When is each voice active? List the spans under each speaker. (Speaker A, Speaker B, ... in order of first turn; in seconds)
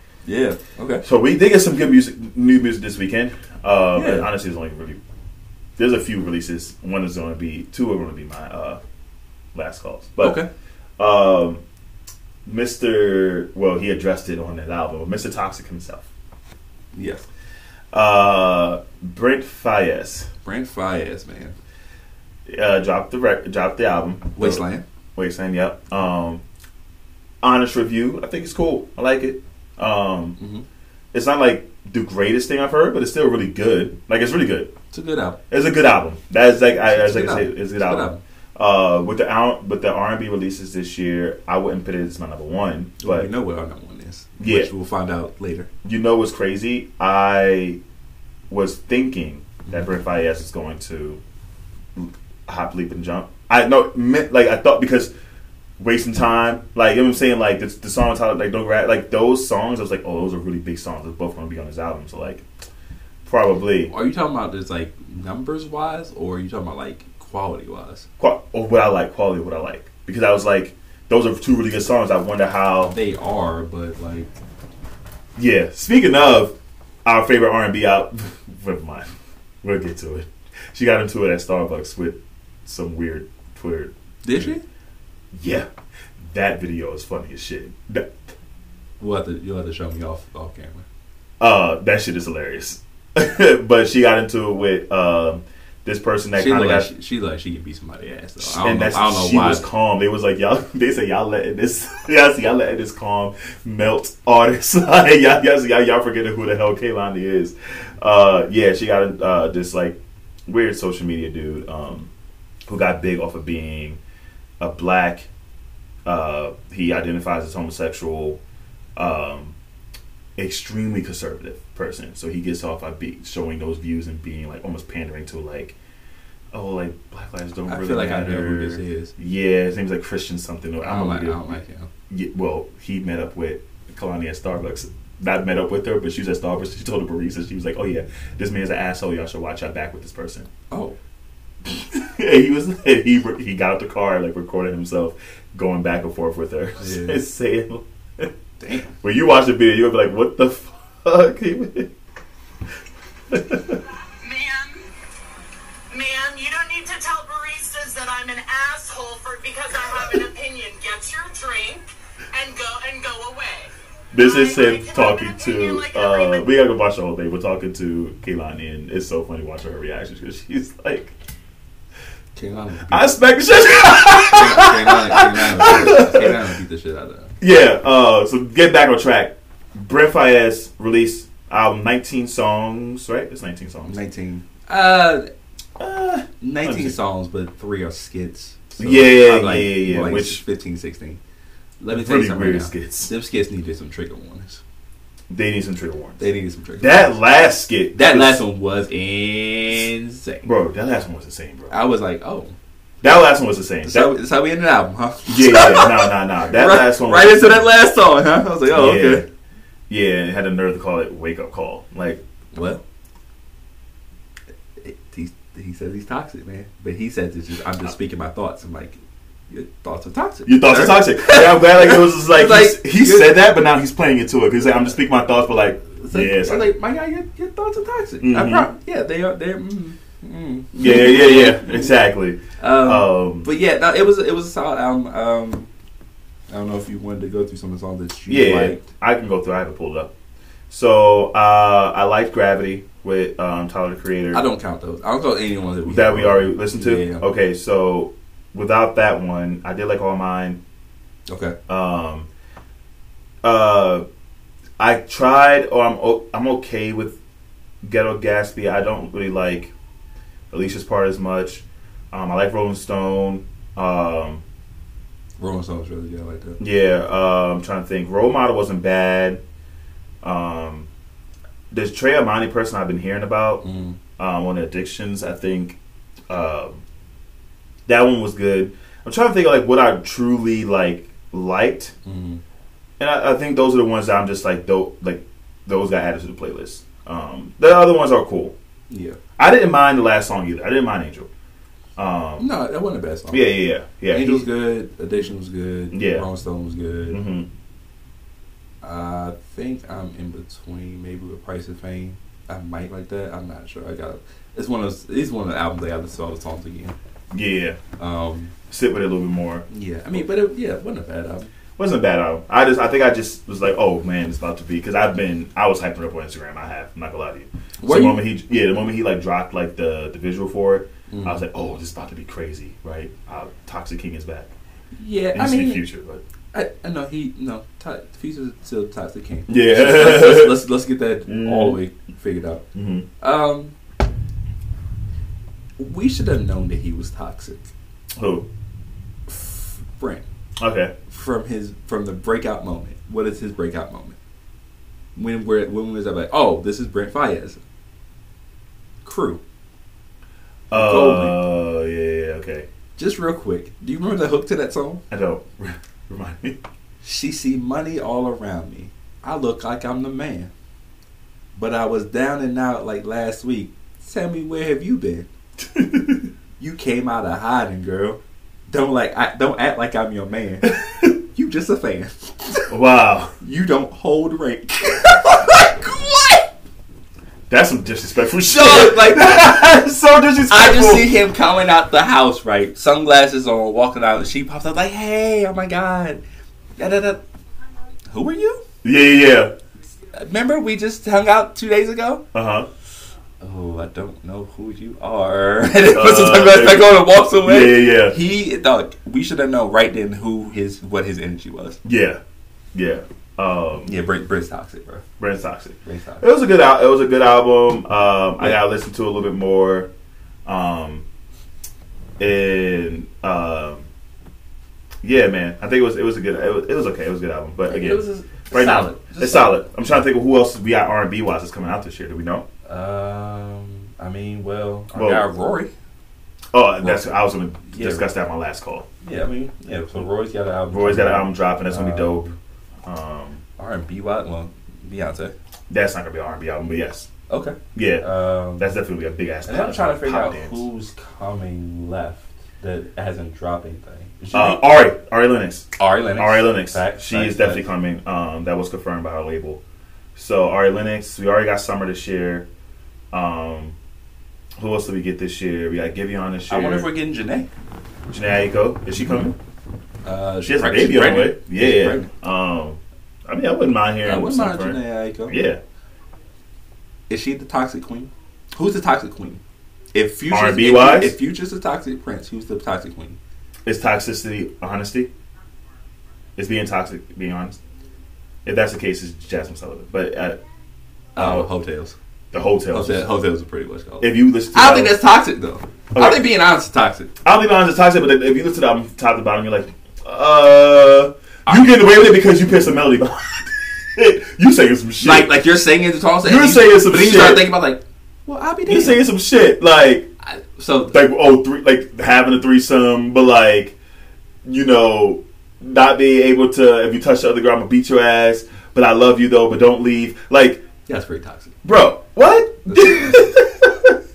Speaker A: 0.3-1.1, 4.0-4.3, 10.2-10.5, 16.9-17.3, 20.4-21.6, 24.4-24.8, 30.4-30.6, 34.9-35.4, 36.9-38.2, 43.0-45.7, 63.9-68.1, 72.9-74.3, 84.2-84.6, 89.0-90.8, 96.4-99.7, 127.7-129.1, 130.8-131.9, 140.7-141.0, 146.8-147.2, 148.6-148.9, 172.4-177.3, 183.9-185.3, 186.4-191.2, 191.8-194.6, 196.2-197.1, 197.9-200.5, 201.7-202.6, 203.8-209.2, 212.5-212.8, 214.8-223.4, 226.0-232.0, 232.6-235.7, 236.5-238.8, 244.3-247.3, 251.3-251.6, 265.4-266.6, 273.6-274.0, 282.1-282.4, 288.9-289.2, 292.4-297.2, 298.8-306.9, 308.0-308.5, 309.7-311.5, 317.8-318.2, 321.1-321.4, 324.9-325.9, 326.5-332.6, 333.2-333.7, 335.8-337.7, 339.3-340.2, 341.1-344.2, 345.2-347.6, 349.0-349.4, 350.7-351.4, 353.0-355.0, 357.0-360.5, 361.6-365.3, 366.6-372.7, 373.4-376.5, 378.5-379.8, 380.5-386.2, 386.8-387.2, 388.1-388.6, 390.1-392.2, 393.4-401.8, 403.8-405.0, 405.9-406.2, 417.7-419.6, 422.7-425.7, 426.8-427.1, 427.6-428.1, 429.0-432.4, 433.6-435.3, 437.3-438.7, 439.5-444.7, 445.8-447.7, 456.5-457.5, 460.1-462.1, 464.1-465.4, 467.1-469.4, 469.9-473.2, 481.1-482.0, 482.7-487.1, 491.5-491.7, 495.0-499.0, 500.2-501.0, 510.9-511.6, 512.7-513.4
Speaker B: 1.0-5.0, 5.8-8.8, 9.5-10.4, 11.0-11.6, 12.4-16.1, 17.9-20.3, 22.5-24.6, 25.2-26.4, 27.4-30.4, 31.1-34.7, 35.5-43.3, 44.4-44.7, 45.8-47.8, 48.5-51.2, 52.0-55.1, 55.8-62.5, 63.2-63.9, 68.2-72.9, 75.4-76.5, 77.0-79.1, 79.6-84.5, 85.3-85.7, 86.2-88.2, 91.4-96.9, 98.4-112.1, 112.7-114.0, 114.6-115.3, 116.0-118.4, 119.0-119.6, 120.4-125.8, 126.5-131.5, 132.1-140.5, 141.7-148.3, 149.0-151.9, 153.3-153.8, 164.1-171.2, 172.9-176.4, 177.4-184.0, 185.8-187.0, 188.8-190.4, 191.9-193.1, 195.3-196.2, 196.8-198.4, 200.4-201.8, 203.0-204.2, 205.3-207.7, 208.7-209.3, 209.9-212.2, 220.5-226.7, 228.2-228.7, 230.7-233.5, 238.3-240.1, 240.7-244.4, 245.9-250.6, 251.7-252.3, 253.4-254.1, 254.8-257.2, 257.8-259.7, 260.5-264.4, 266.6-269.4, 270.2-270.9, 271.7-273.6, 274.2-275.8, 276.3-276.8, 277.9-281.9, 283.0-288.6, 289.4-291.3, 292.0-292.5, 293.3-294.5, 295.9-296.3, 297.1-297.5, 307.3-307.8, 308.7-310.2, 311.8-324.5, 325.3-326.2, 329.5-330.7, 331.3-331.8, 332.7-333.1, 338.2-338.5, 340.6-340.9, 350.7-352.7, 355.1-356.6, 365.7-366.3, 372.7-373.3, 377.5-381.2, 388.8-389.5, 392.3-392.7, 395.9-398.2, 401.8-402.2, 402.7-404.0, 405.2-409.9, 410.5-411.1, 412.2-413.9, 415.0-422.5, 424.9-425.3, 426.5-428.9, 430.7-432.3, 432.9-433.4, 435.7-437.1, 437.7-438.1, 438.6-440.7, 444.3-449.6, 450.1-452.5, 453.1-453.8, 454.6-456.9, 458.1-459.4, 460.4-465.6, 470.3-471.2, 473.7-475.1, 476.4-477.6, 478.4-480.4, 481.2-481.5, 482.3-483.1, 484.0-485.0, 485.9-486.3, 487.2-495.4, 496.2-497.5, 498.7-500.1, 500.9-503.8, 504.4-510.6, 511.6-514.0
Speaker C: 154.2-154.9, 155.9-166.5